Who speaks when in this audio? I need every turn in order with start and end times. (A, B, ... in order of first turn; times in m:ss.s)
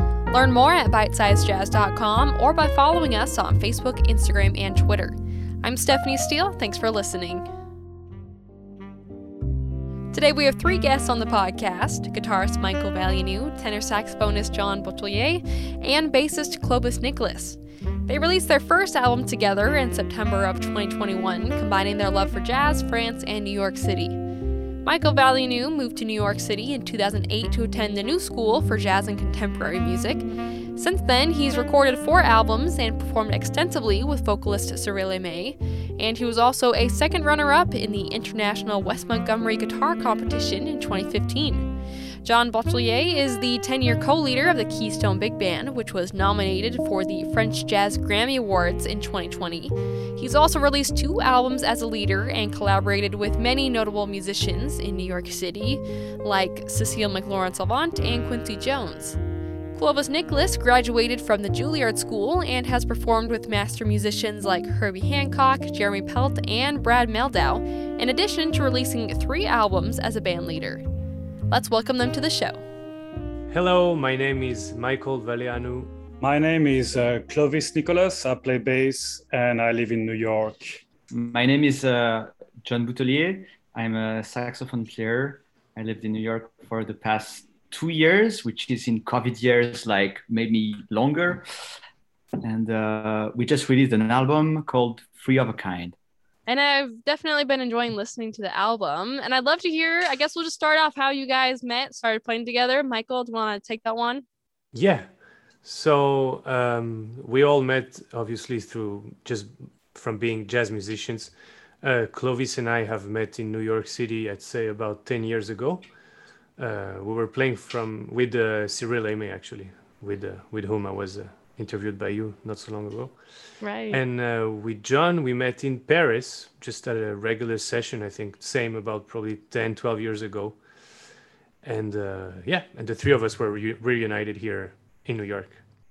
0:00.3-0:07.5 A
0:10.1-0:24.2 A
0:24.8-0:41.7 A
0:42.2-0:59.2 A
0:59.7-1:10.8 A
1:11.5-1:12.6 A
1:13.5-1:15.9 B
1:16.2-1:20.8 C
1:21.1-1:31.4 D
1:32.4-1:36.0 D
1:36.5-1:44.2 A
1:44.7-1:56.0 B
1:56.6-2:11.1 B
2:03.6-2:04.0 A
2:11.6-2:15.6 B